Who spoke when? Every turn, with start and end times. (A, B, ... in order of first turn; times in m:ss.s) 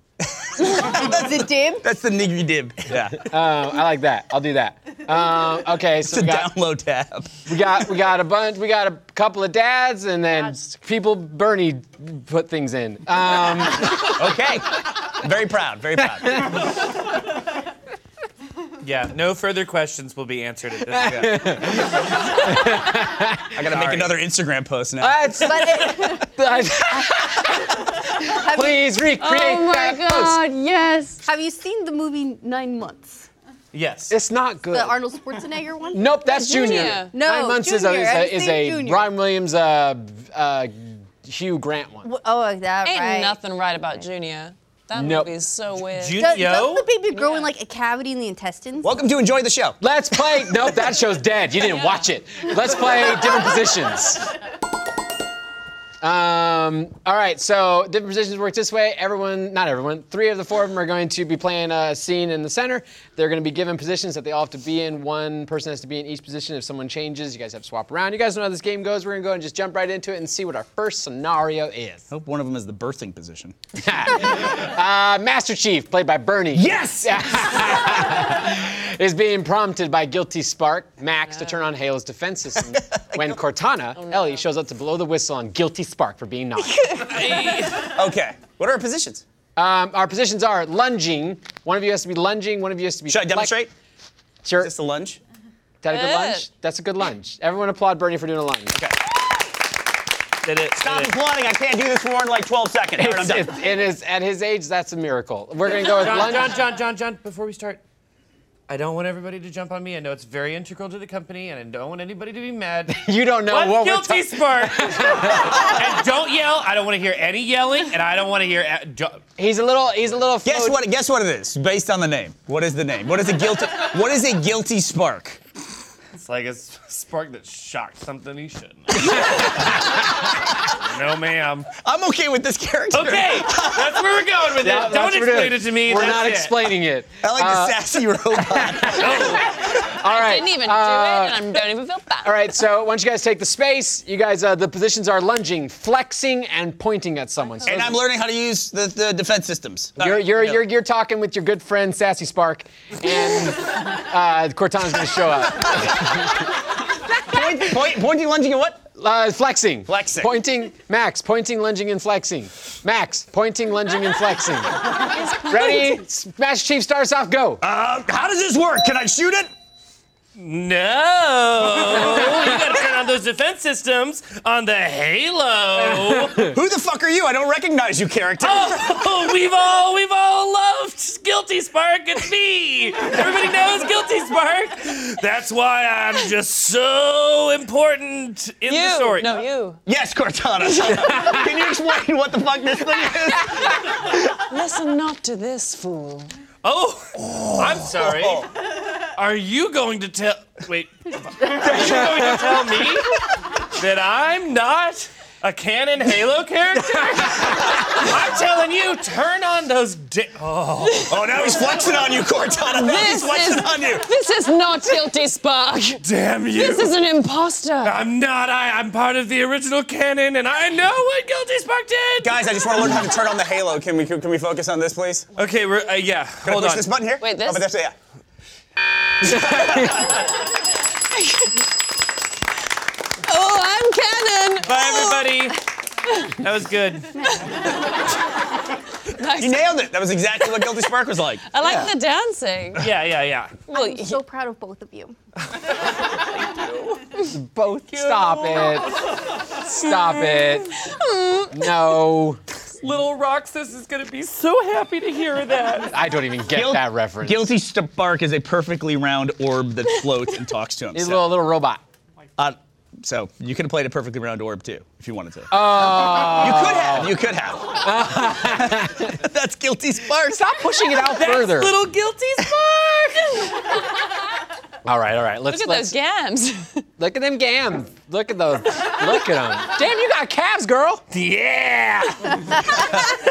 0:00.2-0:03.3 A
0:00.6-0:01.9 B
0:03.2-0:06.5 C
0:06.1-0:07.4 A
0:07.5-0:14.2 C
0:14.0-0:16.5 A
0:18.8-0:21.6 D
0:20.9-0:23.6 C
0:21.0-0:21.3 A
0:23.5-0:25.5 A
0:23.6-0:24.2 D
0:25.0-0:30.4 C
0:25.4-0:27.2 B
0:28.2-0:28.8 B
0:29.2-0:30.4 E
0:30.1-0:33.3 B
0:33.7-0:34.2 D
0:34.1-0:35.0 C
0:34.7-0:39.1 B
0:35.9-0:42.1 C
0:36.2-0:37.1 E
0:42.0-0:43.4 B
0:42.8-0:46.4 E
0:44.9-0:45.3 C
0:45.9-0:46.9 D
0:46.2-0:49.0 B
0:47.1-0:47.5 E
0:48.8-0:49.8 A
0:49.8-0:54.3 C
0:56.0-1:12.1 C
1:12.1-1:13.5 A
1:13.8-1:27.1 C
1:16.6-1:17.5 A
1:23.0-1:23.4 A
1:23.9-1:24.4 E
1:27.0-1:28.0 D
1:27.8-1:29.2 A
1:29.6-1:33.5 C
1:33.1-1:33.7 A
1:34.4-1:34.7 C
1:34.6-1:35.2 A
1:35.8-1:38.8 C
1:35.9-1:36.4 E
1:40.4-1:41.1 D
1:40.8-1:43.5 A
1:43.0-1:46.6 C
1:45.8-1:47.8 D
1:48.7-1:59.2 D
1:52.9-1:55.7 C
1:55.4-1:55.8 A
1:59.4-2:00.8 C
2:00.4-2:05.4 A
2:06.1-2:09.8 D
2:10.6-2:11.7 D
2:11.8-2:14.0 A
2:12.9-2:16.6 D
2:14.6-2:21.5 C
2:17.2-2:19.6 A
2:18.9-2:19.5 D
2:20.0-2:22.5 E
2:22.2-2:28.0 C
2:27.6-2:30.6 A
2:30.0-2:36.5 C
2:37.2-2:38.8 A
2:39.0-2:47.6 C
2:39.9-2:40.3 A
2:47.6-2:49.5 A
2:50.4-2:56.5 D
2:55.9-2:56.5 C
2:56.4-2:58.9 A
2:58.4-3:09.4 D
3:08.7-3:09.8 E
3:09.8-3:13.8 A
3:13.4-3:16.3 E
3:16.6-3:18.5 D
3:17.2-3:18.5 A
3:19.1-3:31.6 D
3:21.6-3:22.3 C
3:31.1-3:34.1 A
3:32.7-3:36.0 E
3:36.0-3:37.0 D
3:36.5-3:38.0 E
3:37.8-3:42.6 D
3:42.2-3:45.3 A
3:45.4-3:46.9 D
3:46.4-3:47.9 A
3:47.2-3:47.6 E
3:49.2-3:50.2 A
3:49.2-3:50.0 C
3:51.1-3:51.6 E
3:53.2-3:55.5 E
3:54.6-3:55.6 D
3:56.4-3:57.2 D
3:57.2-3:57.5 B
3:59.1-3:59.9 E
3:59.4-4:01.4 A
4:00.4-4:00.7 E
4:01.5-4:02.8 E
4:02.8-4:03.5 D
4:03.7-4:04.2 E
4:03.7-4:05.1 B
4:05.5-4:07.0 D
4:07.2-4:09.0 C
4:07.9-4:08.8 D
4:09.5-4:10.8 C
4:10.8-4:11.7 E
4:11.5-4:12.4 C
4:12.8-4:15.9 D
4:15.9-4:17.5 C
4:16.5-4:21.2 A
4:20.9-4:21.8 C
4:22.4-4:27.8 A
4:25.5-4:27.1 C
4:27.8-4:29.2 C
4:28.5-4:30.5 A
4:30.3-4:31.8 C
4:31.1-4:33.5 D
4:34.8-4:36.0 C
4:35.5-4:36.8 E
4:37.0-4:41.0 C
4:41.1-4:42.6 D
4:42.8-4:43.0 A